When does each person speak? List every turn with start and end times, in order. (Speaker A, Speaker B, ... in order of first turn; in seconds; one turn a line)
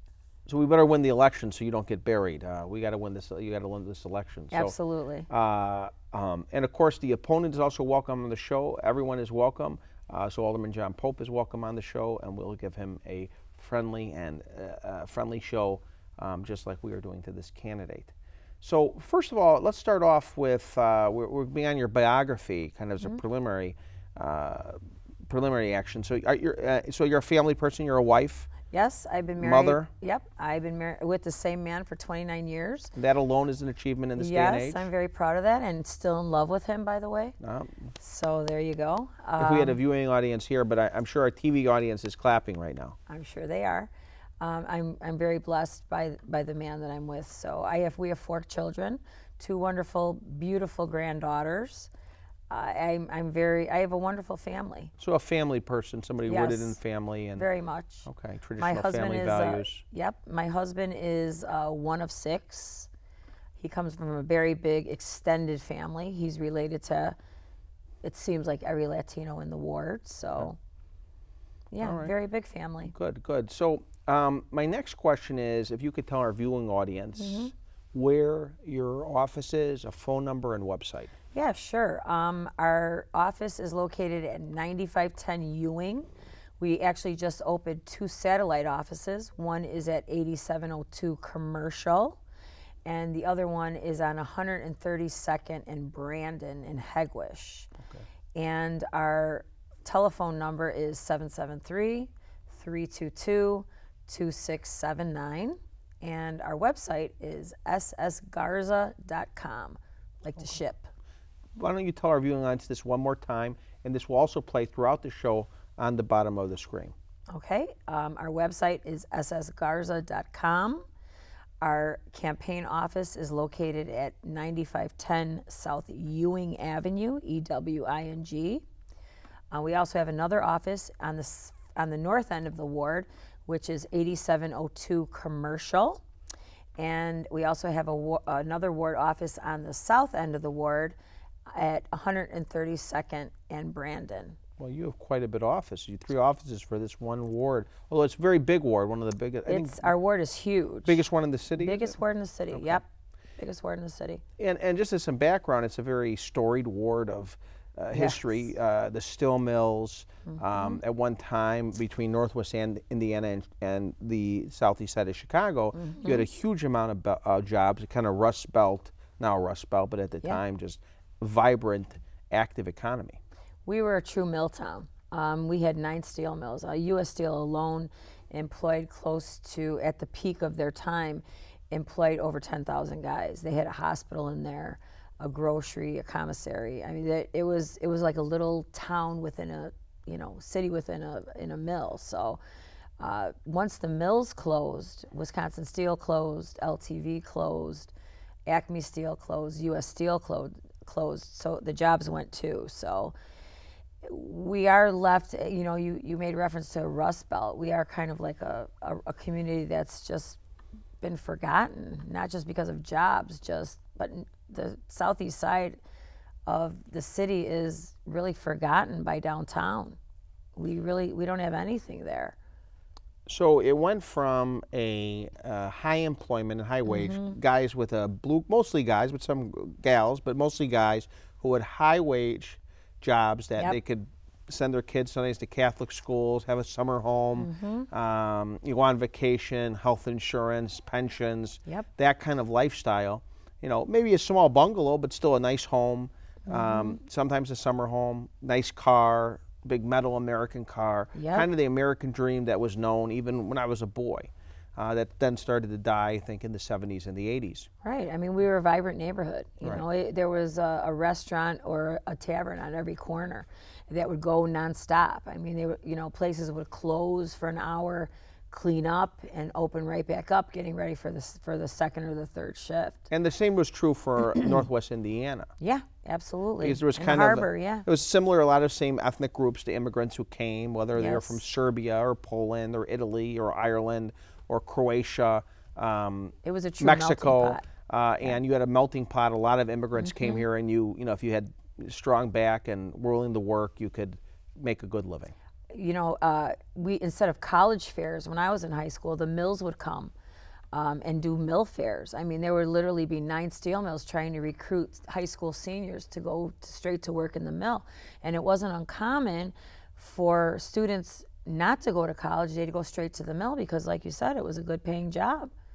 Speaker A: 0.5-4.7
Speaker B: 4.5-5.3
Speaker A: 5.3-28.5
Speaker B: 28.7-32.9
Speaker A: 29.4-29.9
Speaker A: 33.0-34.9
Speaker B: 34.1-37.4
Speaker A: 37.4-37.9
Speaker B: 38.0-39.8
Speaker A: 39.4-43.0
Speaker B: 43.1-43.9
Speaker B: 44.4-51.9
Speaker B: 52.5-54.9
Speaker A: 55.0-57.5
Speaker B: 56.3-56.8
Speaker B: 57.4-58.0
Speaker A: 58.0-59.8
Speaker B: 58.6-62.9
Speaker B: 63.6-67.2
Speaker B: 68.0-70.6
Speaker B: 71.7-72.9
Speaker A: 71.8-72.1
Speaker A: 72.9-81.1
Speaker B: 77.2-77.5
Speaker B: 81.3-86.1
Speaker B: 86.6-92.2
Speaker B: 92.8-97.7
Speaker B: 98.3-110.9
Speaker A: 111.6-116.9
Speaker B: 117.3-120.8
Speaker B: 121.6-128.6
Speaker B: 129.5-136.0
Speaker B: 136.8-140.9
Speaker B: 141.5-144.4
Speaker A: 144.6-149.9
Speaker B: 149.4-151.0
Speaker A: 150.8-151.9
Speaker B: 151.5-152.8
Speaker A: 152.5-152.8
Speaker B: 153.4-154.2
Speaker A: 154.4-173.2
Speaker B: 157.9-158.2
Speaker B: 160.3-160.8
Speaker B: 165.8-166.2
Speaker B: 173.7-192.4
Speaker B: 193.0-197.9
Speaker B: 198.5-203.1
Speaker B: 204.0-210.4
Speaker B: 211.0-215.8
Speaker B: 216.4-220.0
Speaker B: 220.6-222.3
Speaker A: 223.3-257.7
Speaker B: 226.8-227.4
Speaker B: 237.4-237.9
Speaker B: 246.5-247.0
Speaker B: 251.1-251.5
Speaker B: 257.8-273.1
Speaker A: 273.1-275.5
Speaker B: 275.6-277.9
Speaker A: 276.6-295.3
Speaker B: 280.9-281.4
Speaker B: 286.4-287.6
Speaker B: 290.0-290.4
Speaker B: 295.7-300.1
Speaker B: 300.7-315.5